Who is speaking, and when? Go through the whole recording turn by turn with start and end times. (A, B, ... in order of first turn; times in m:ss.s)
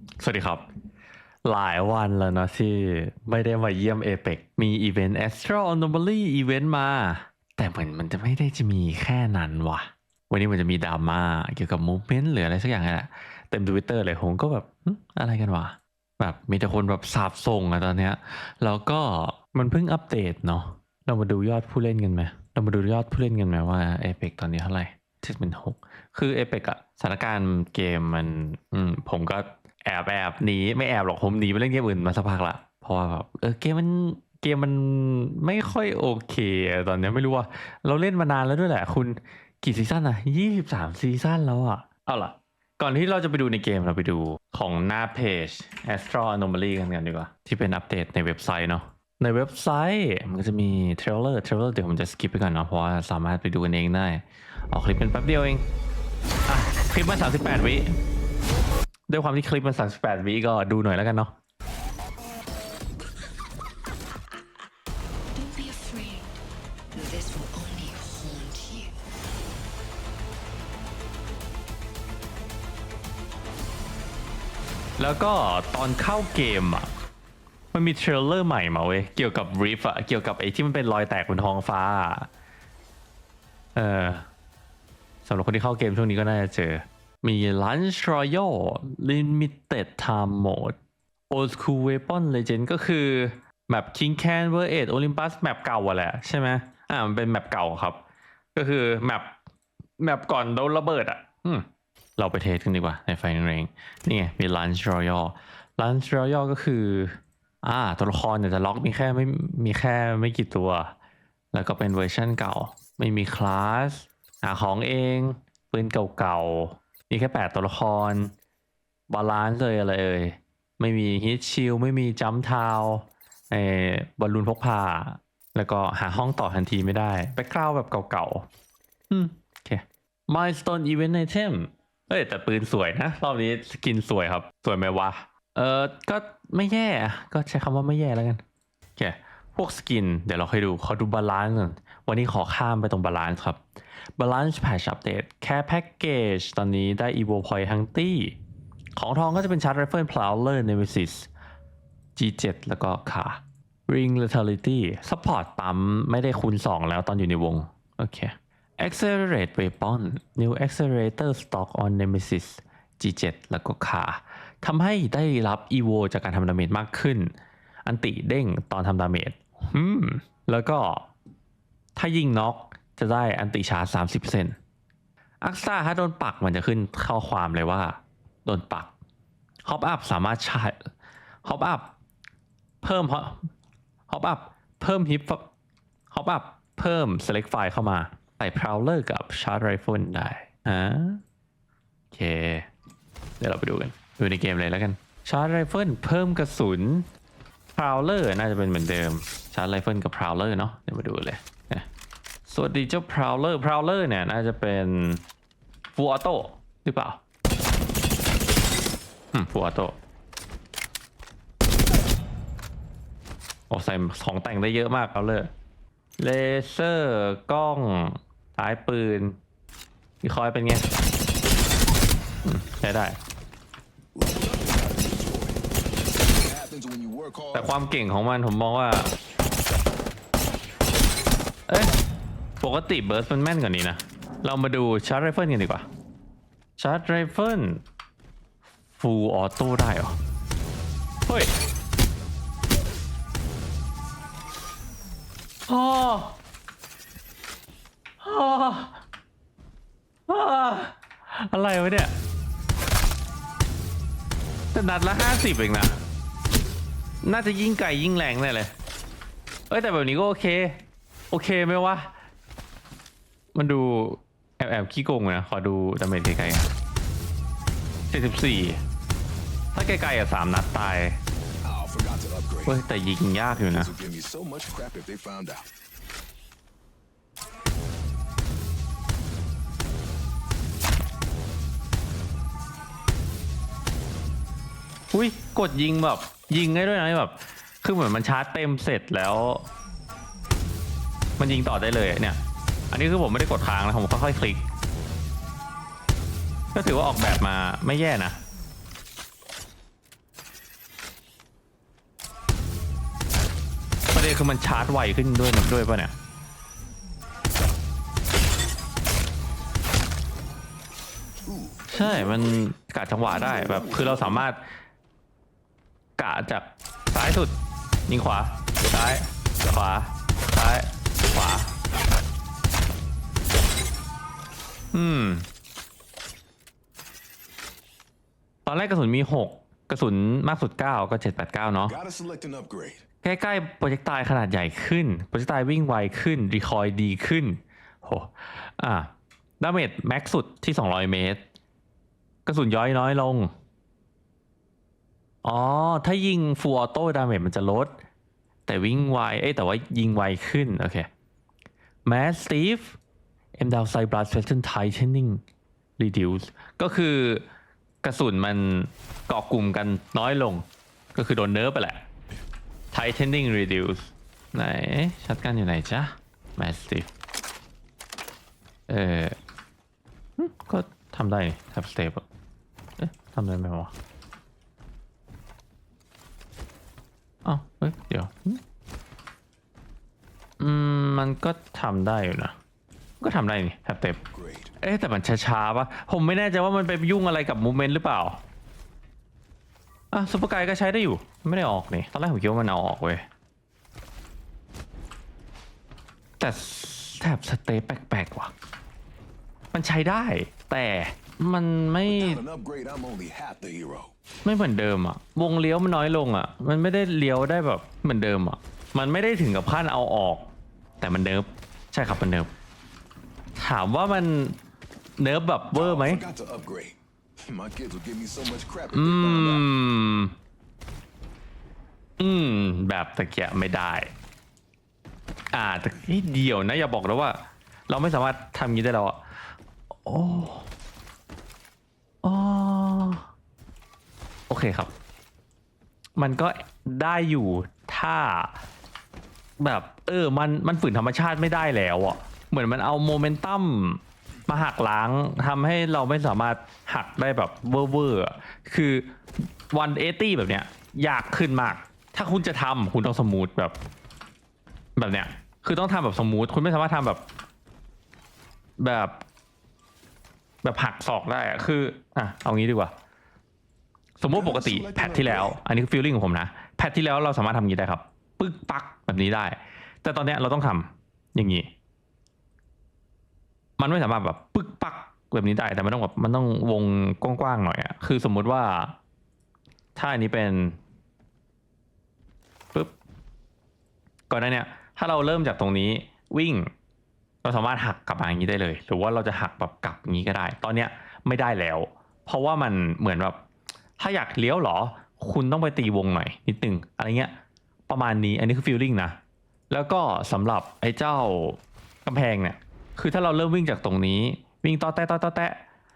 0:00.2-0:00.6 A
0:01.4-0:55.6 A
0:56.5-0:58.0 A
0:59.1-1:01.3 A
1:05.3-1:06.4 B
1:06.9-1:08.9 B
1:15.0-1:16.9 A
1:17.7-1:22.3 A
1:23.8-1:24.3 A
1:25.2-1:30.8 A
1:31.3-1:38.0 A
1:38.6-1:39.4 A
1:40.0-1:41.7 A
1:42.2-1:50.9 A
1:51.5-1:58.3 A
1:59.1-2:08.5 A
2:09.1-2:18.4 A
2:19.0-2:23.6 A
2:24.2-2:28.4 A
2:29.0-2:31.3 A
2:32.2-2:47.3 A
2:47.8-2:51.1 A
2:52.0-2:54.6 A
2:55.4-2:58.9 A
2:59.6-3:00.9 A
3:01.4-3:01.9 A
3:02.8-3:03.5 A
3:04.1-3:05.5 A
3:06.1-3:11.2 A
3:12.1-3:12.7 A
3:13.4-3:17.1 A
3:17.8-3:21.9 A
3:22.5-3:25.2 A
3:26.0-3:27.2 A
3:29.3-3:30.0 A
3:33.7-3:35.5 A
3:36.2-3:39.4 A
3:40.2-3:40.9 A
3:42.4-3:43.2 A
3:44.2-3:45.6 C
3:46.2-3:47.8 C
3:47.5-3:49.1 A
3:52.6-3:55.9 A
3:56.8-3:57.8 A
3:59.0-4:00.2 A
4:01.3-4:01.5 A
4:05.7-4:06.4 A
4:08.2-4:09.0 A
4:10.3-4:12.2 A
4:14.7-4:16.0 A
4:17.2-4:18.7 A
4:19.7-4:22.1 A
4:23.6-4:26.7 A
4:28.1-4:28.8 A
4:29.7-4:31.2 A
4:31.6-4:32.8 C
4:32.7-4:33.9 A
4:33.5-4:35.7 C
4:45.1-4:49.7 A
4:51.4-4:52.4 A
4:52.9-4:54.7 A
4:56.7-4:58.4 A
5:04.1-5:06.2 A
5:11.4-5:12.7 C
5:11.9-5:14.7 A
5:13.2-5:14.5 C
5:16.2-5:17.6 A
5:18.1-5:21.7 A
5:24.9-5:25.5 A
5:28.6-5:32.0 A
5:31.9-5:33.0 C
5:33.2-5:41.4 A
5:42.5-5:43.5 A
5:45.4-5:48.0 A
5:48.7-5:51.1 A
5:52.0-5:53.0 A
5:53.6-5:55.4 A
5:56.0-5:57.5 A
5:58.0-6:02.1 A
6:02.9-6:07.1 A
6:08.9-6:09.4 A
6:10.4-6:12.2 A
6:13.0-6:13.9 A
6:17.4-6:18.6 A
6:20.6-6:22.6 A
6:23.2-6:24.2 A
6:24.2-6:24.7 C
6:24.8-6:28.4 A
6:30.1-6:33.3 A
6:36.4-6:38.5 A
6:39.7-6:42.4 A
6:42.0-6:44.1 C
6:44.4-6:52.5 A
6:53.6-6:54.6 A
6:55.2-6:56.2 A
6:55.7-6:59.6 C
6:58.9-7:00.4 A
7:02.2-7:04.1 A
7:05.5-7:09.2 A
7:10.0-7:10.7 A
7:12.2-7:13.3 A
7:14.5-7:14.9 A
7:16.2-7:18.6 A
7:19.6-7:33.8 A
7:35.0-7:37.2 A
7:38.8-7:39.2 A
7:40.6-7:42.9 A
7:44.2-7:51.7 A
7:44.3-7:45.6 C
7:53.8-7:59.0 A
8:00.0-8:00.8 A
8:04.3-8:06.7 A
8:07.4-8:13.4 A
8:14.0-8:17.3 A
8:17.9-8:19.2 A
8:19.7-8:25.6 A